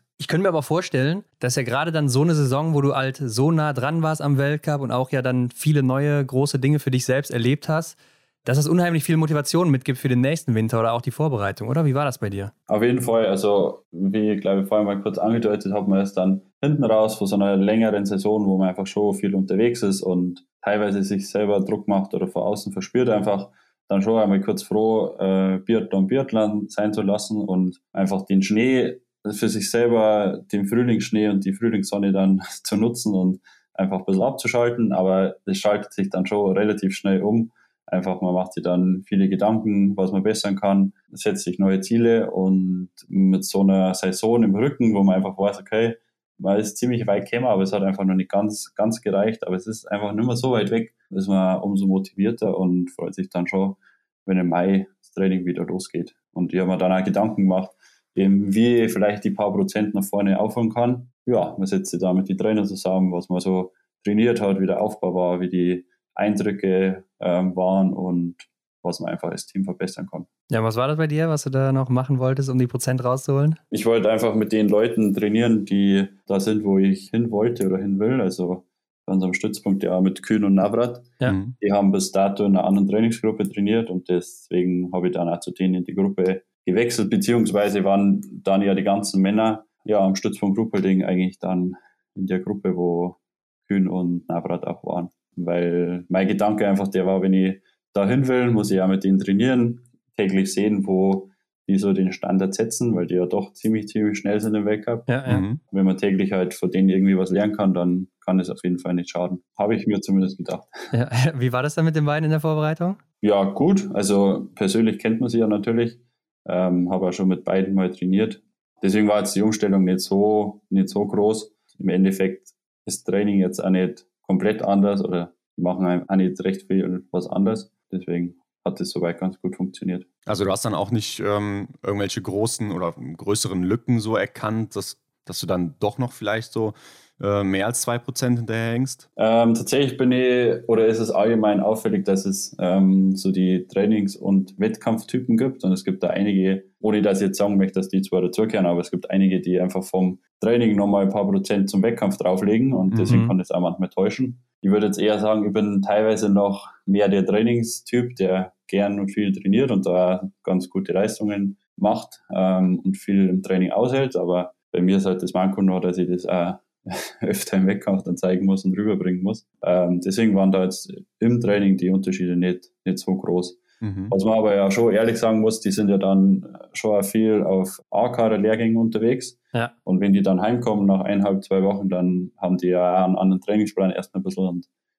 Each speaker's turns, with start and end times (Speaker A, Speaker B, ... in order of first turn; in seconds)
Speaker A: 0.2-12.5, 70.5-73.6, 105.1-105.4, 110.9-113.0, 153.0-153.3
Speaker B: 12.7-70.3, 73.7-110.9, 113.2-130.1, 139.2-184.7
Speaker C: 81.3-81.5, 105.2-105.6, 130.3-139.1, 173.8-174.1